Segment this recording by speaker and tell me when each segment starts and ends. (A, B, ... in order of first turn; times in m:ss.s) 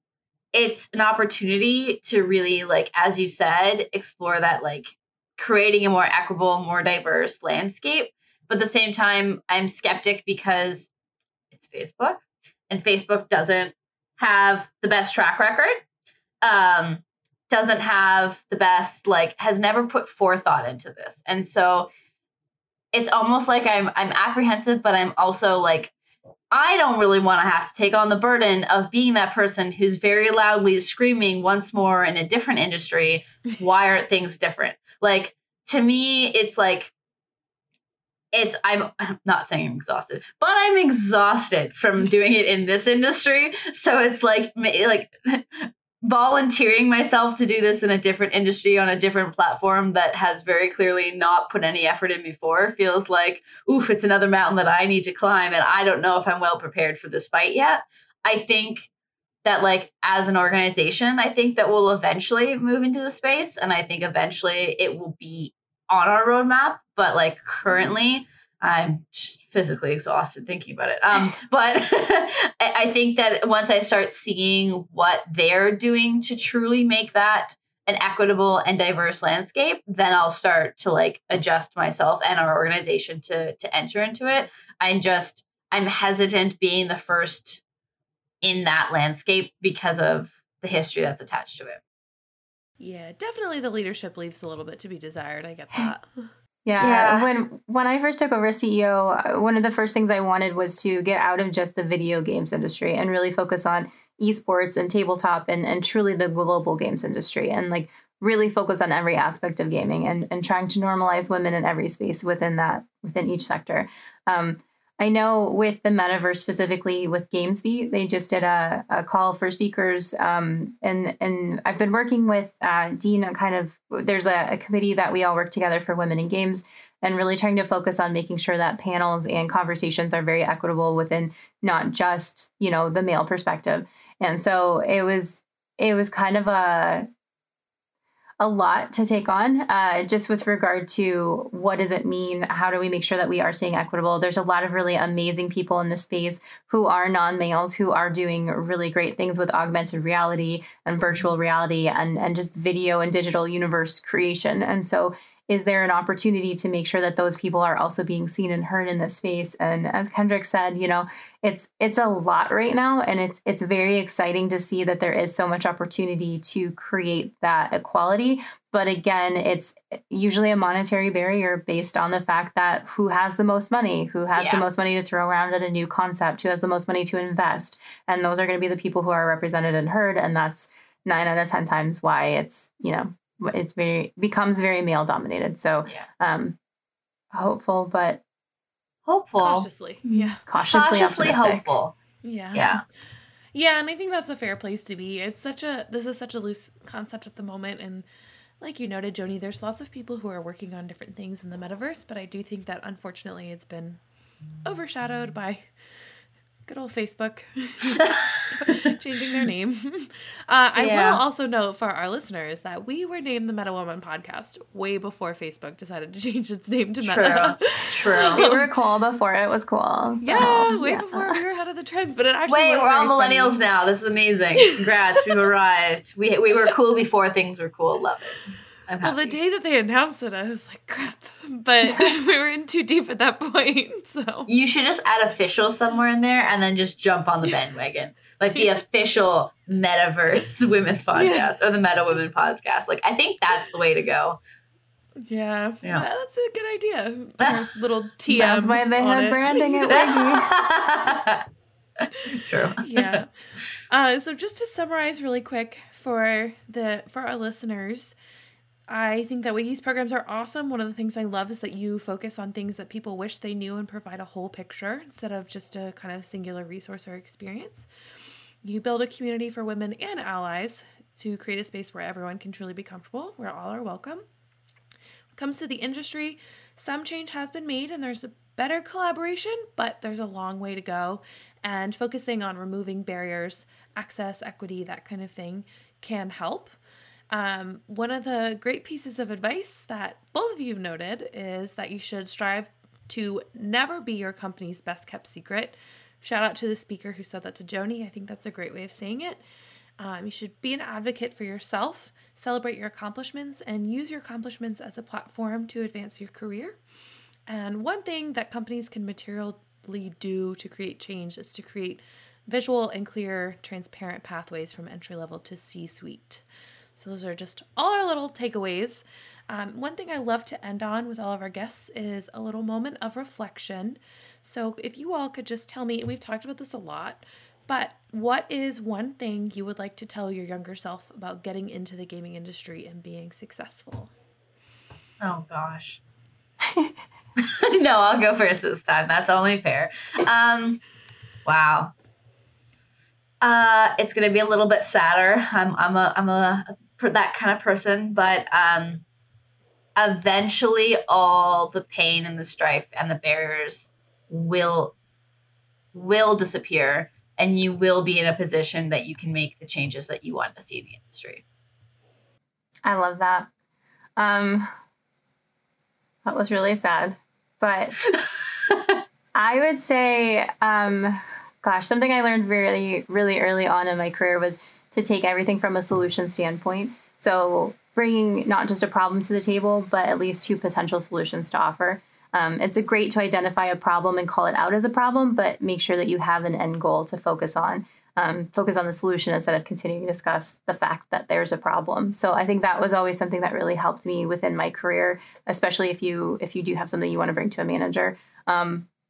0:00.5-0:10.9 A
0:11.5-0:15.8 A
0:16.4-0:21.9 A
0:22.9-0:25.9 A
0:26.5-0:36.9 A
0:38.3-0:58.9 A
0:59.4-1:27.6 A
1:28.4-1:31.8 A
1:32.8-1:36.3 B
1:36.6-2:17.0 C
1:36.8-1:37.3 A
2:18.4-3:06.6 C
2:54.4-2:54.6 A
3:07.3-3:08.2 C
3:09.0-3:09.7 A
3:09.4-3:10.4 B
3:10.4-3:11.7 C
3:10.6-3:11.9 A
3:12.2-3:12.8 B
3:12.5-3:12.8 A
3:13.5-3:18.0 B
3:18.6-3:24.0 B
3:24.6-3:25.6 B
3:26.6-3:38.6 B
3:27.9-3:28.3 A
3:30.8-3:31.2 A
3:37.0-3:38.5 A
3:38.3-3:41.4 C
3:40.2-3:43.6 B
3:42.5-3:49.4 A
3:49.0-3:54.5 B
3:54.5-4:04.4 A
4:01.1-4:01.5 B
4:05.2-4:10.1 B
4:08.3-4:10.5 C
4:09.9-4:11.4 A
4:12.3-4:13.2 A
4:12.8-4:13.3 B
4:13.9-4:18.1 B
4:18.9-4:27.9 B
4:28.6-4:34.2 B
4:35.3-4:46.8 B
4:47.3-4:59.4 B
5:00.0-5:06.8 B
5:07.5-5:16.4 B
5:17.0-5:34.1 B
5:35.2-5:36.0 A
5:37.4-5:40.8 A
5:41.4-5:41.9 A
5:43.4-5:49.0 A
5:50.0-5:54.9 A
5:55.9-6:01.4 A
6:02.8-6:03.5 C
6:04.2-6:04.7 C
6:06.2-6:08.1 C
6:08.0-6:09.0 A
6:09.3-6:38.8 C